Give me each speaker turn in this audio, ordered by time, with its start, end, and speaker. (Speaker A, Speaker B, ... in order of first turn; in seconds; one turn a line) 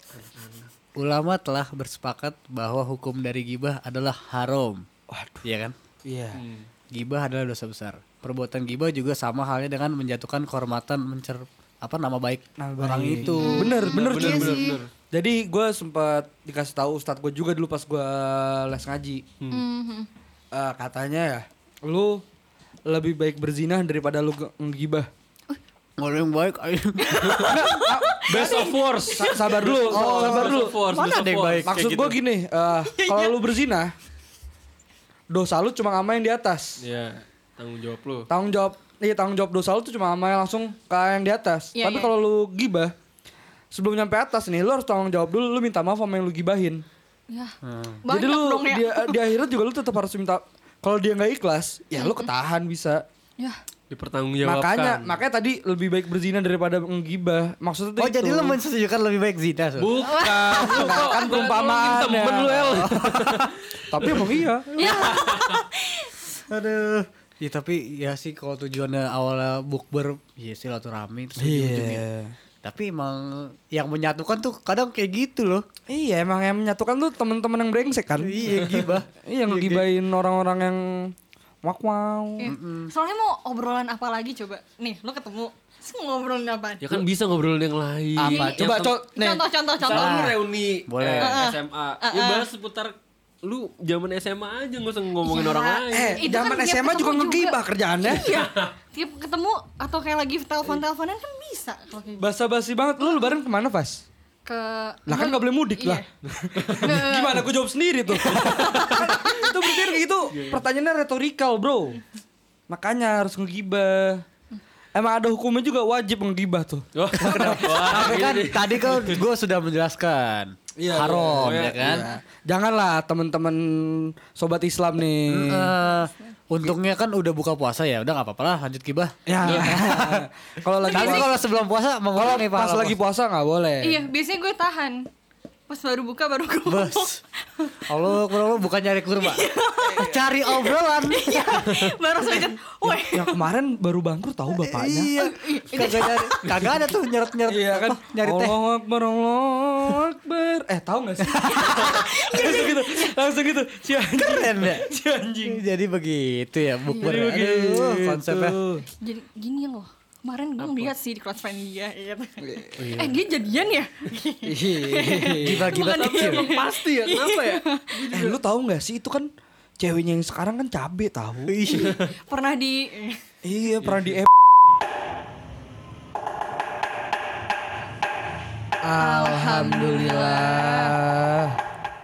Speaker A: 0.1-0.7
Speaker B: 1.0-4.8
Speaker C: 5.1-5.5
Speaker B: 5.5-5.8
Speaker C: 6.1-6.4
Speaker A: 6.4-6.7
Speaker B: 6.9-13.8
Speaker C: 12.6-19.2
Speaker D: 13.2-14.8
Speaker A: 13.8-14.9
Speaker D: 19.5-20.1
Speaker C: 20.5-22.2
Speaker C: 22.9-25.1
Speaker B: 26.0-27.5
Speaker D: 27.0-30.7
Speaker C: 27.4-30.8
Speaker A: 28.3-32.1
Speaker B: 29.9-32.1
Speaker C: 31.6-33.9
Speaker D: 32.8-33.5
Speaker C: 35.3-36.8
Speaker A: 36.8-38.3
Speaker C: 38.3-42.9
Speaker D: 41.7-42.1
Speaker C: 43.7-46.8
Speaker D: 47.3-49.2
Speaker B: 47.6-48.0
Speaker C: 48.1-53.0
Speaker D: 51.9-52.3
Speaker A: 53.9-55.2
Speaker C: 54.4-58.6
Speaker B: 58.0-60.0
Speaker A: 59.8-64.3
Speaker D: 60.0-61.5
Speaker C: 60.5-62.8
Speaker B: 62.8-63.6
Speaker C: 63.9-64.8
Speaker D: 64.7-66.4
Speaker A: 64.8-65.6
Speaker B: 66.5-72.0
Speaker C: 71.4-72.3
Speaker B: 72.6-75.7
Speaker C: 75.9-78.5
Speaker B: 78.2-79.9
Speaker C: 79.2-81.1
Speaker C: 81.6-82.5
Speaker D: 82.4-87.0
Speaker B: 82.4-82.9
Speaker A: 86.8-89.0
Speaker C: 88.2-89.4
Speaker D: 88.2-90.4
Speaker A: 89.8-96.3
Speaker B: 89.9-91.4
Speaker D: 91.2-92.5
Speaker D: 95.2-102.2
Speaker C: 95.9-98.2
Speaker A: 98.2-98.7
Speaker C: 102.2-104.0
Speaker D: 103.0-103.4
Speaker D: 104.5-106.1
Speaker C: 105.1-112.0
Speaker A: 106.5-107.0
Speaker D: 106.8-107.4
Speaker D: 108.1-110.0
Speaker A: 110.3-110.6
Speaker C: 112.7-114.2
Speaker C: 115.0-118.1
Speaker A: 117.0-119.2
Speaker B: 117.1-122.1
Speaker C: 120.8-125.7
Speaker A: 121.3-122.1
Speaker B: 125.3-130.3
Speaker C: 129.3-131.3
Speaker A: 129.4-129.8
Speaker D: 130.8-131.3
Speaker B: 130.9-133.0
Speaker C: 132.3-134.1
Speaker D: 133.8-135.0
Speaker D: 135.7-138.4
Speaker B: 136.7-137.2
Speaker B: 137.9-141.7
Speaker D: 139.1-143.5
Speaker C: 142.8-145.1
Speaker B: 144.6-148.6
Speaker D: 145.2-146.6
Speaker C: 147.5-155.6
Speaker D: 151.3-153.3
Speaker B: 151.4-152.0
Speaker B: 154.3-154.9
Speaker B: 155.4-158.6
Speaker D: 156.9-157.3
Speaker C: 157.0-158.9
Speaker D: 158.9-168.0
Speaker A: 160.6-160.9
Speaker C: 162.4-162.8
Speaker A: 162.8-163.3
Speaker C: 164.4-165.7
Speaker B: 165.4-166.5
Speaker A: 165.8-168.4
Speaker C: 168.1-169.3
Speaker C: 169.8-171.6
Speaker B: 171.5-171.9
Speaker D: 171.7-173.2
Speaker A: 171.8-172.1
Speaker C: 173.4-174.3
Speaker A: 173.8-174.2
Speaker C: 178.8-181.6
Speaker D: 179.0-180.9